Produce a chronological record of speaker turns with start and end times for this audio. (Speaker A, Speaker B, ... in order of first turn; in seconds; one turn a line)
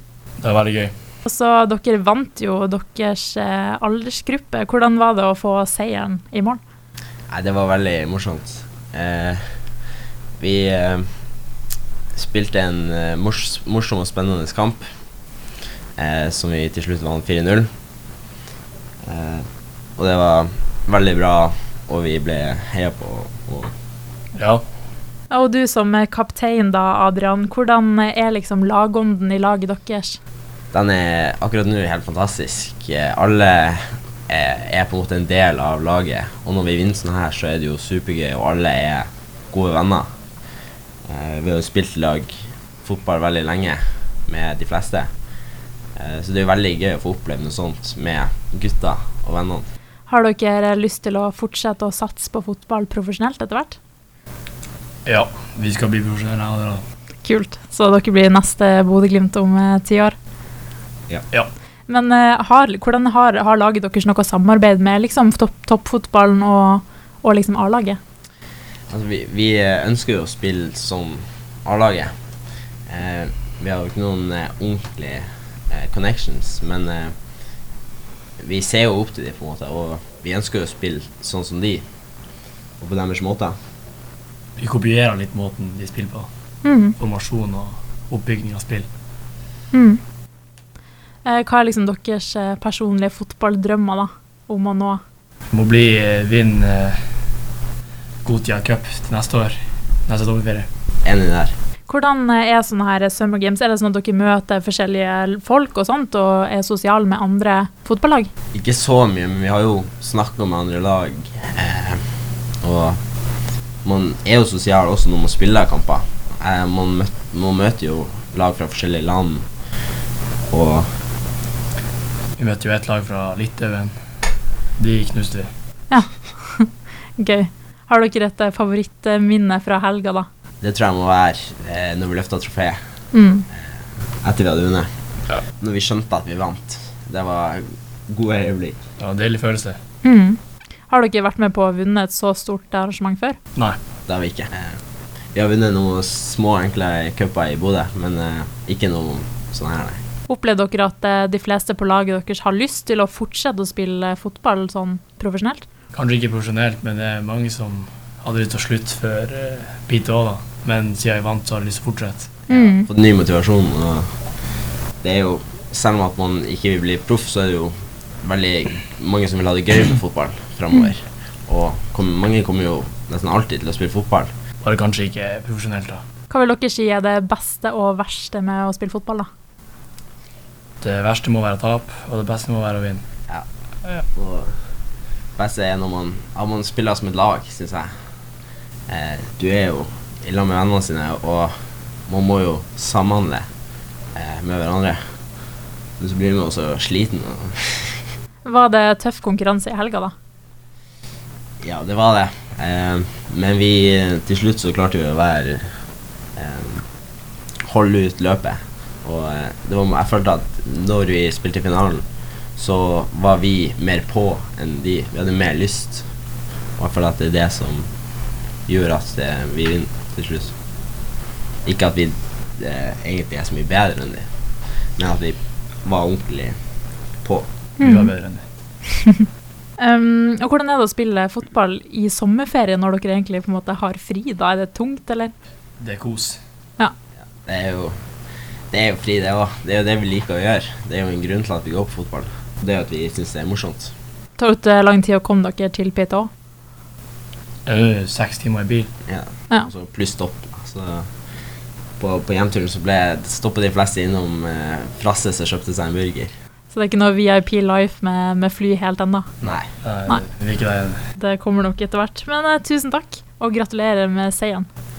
Speaker A: 0.4-0.9
Speaker B: 1.2-6.6
Speaker C: 7.3-9.6
Speaker C: 10.4-11.2
Speaker C: 12.1-14.9
Speaker C: 16.0-17.7
Speaker C: 19.0-23.7
Speaker A: 24.3-24.6
Speaker B: 25.3-30.2
Speaker C: 30.7-40.1
Speaker C: 41.0-45.1
Speaker C: 46.0-49.7
Speaker B: 50.1-53.8
Speaker A: 55.0-56.8
Speaker B: 57.2-60.1
Speaker B: 61.9-68.0
Speaker C: 68.9-72.1
Speaker C: 72.9-77.2
Speaker C: 78.4-81.8
Speaker C: 82.8-83.6
Speaker A: 84.6-86.3
Speaker B: 86.6-87.0
Speaker A: 87.0-88.9
Speaker B: 89.7-90.0
Speaker B: 91.2-95.0
Speaker A: 95.5-97.1
Speaker A: 98.2-100.7
Speaker C: 101.0-101.5
Speaker B: 101.9-108.3
Speaker C: 108.5-112.1
Speaker C: 112.6-113.0
Speaker C: 113.8-119.5
Speaker C: 120.5-121.0
Speaker A: 122.4-124.0
Speaker A: 124.8-125.5
Speaker B: 125.9-130.3
Speaker C: 130.6-132.8
Speaker B: 133.1-133.5
Speaker C: 133.6-138.8
Speaker A: 139.0-139.8
Speaker B: 140.0-143.4
Speaker C: 144.1-144.8
Speaker C: 145.3-150.0
Speaker B: 150.3-155.7
Speaker A: 155.9-162.3
Speaker C: 162.5-164.2
Speaker B: 162.5-162.9
Speaker C: 165.0-174.3
Speaker A: 174.6-176.0
Speaker B: 176.3-179.3
Speaker A: 180.8-183.0
Speaker C: 184.1-184.5
Speaker C: 185.4-187.9
Speaker C: 188.9-191.6
Speaker C: 192.1-193.5
Speaker C: 194.1-195.0
Speaker C: 196.0-198.1
Speaker B: 198.4-200.1
Speaker C: 201.6-205.8
Speaker C: 206.3-206.9
Speaker C: 207.6-216.1
Speaker C: 216.8-217.9
Speaker C: 218.7-220.5
Speaker C: 221.6-224.3
Speaker C: 225.0-226.6
Speaker B: 227.8-228.1
Speaker A: 227.8-228.4
Speaker B: 229.8-235.3
Speaker A: 235.8-236.4
Speaker C: 237.4-238.0
Speaker C: 238.7-243.9
Speaker B: 244.4-246.3
Speaker A: 247.7-248.9
Speaker C: 249.1-251.1
Speaker C: 252.0-256.3
Speaker B: 256.7-259.3
Speaker C: 259.4-259.7
Speaker A: 259.8-261.0
Speaker B: 261.2-264.6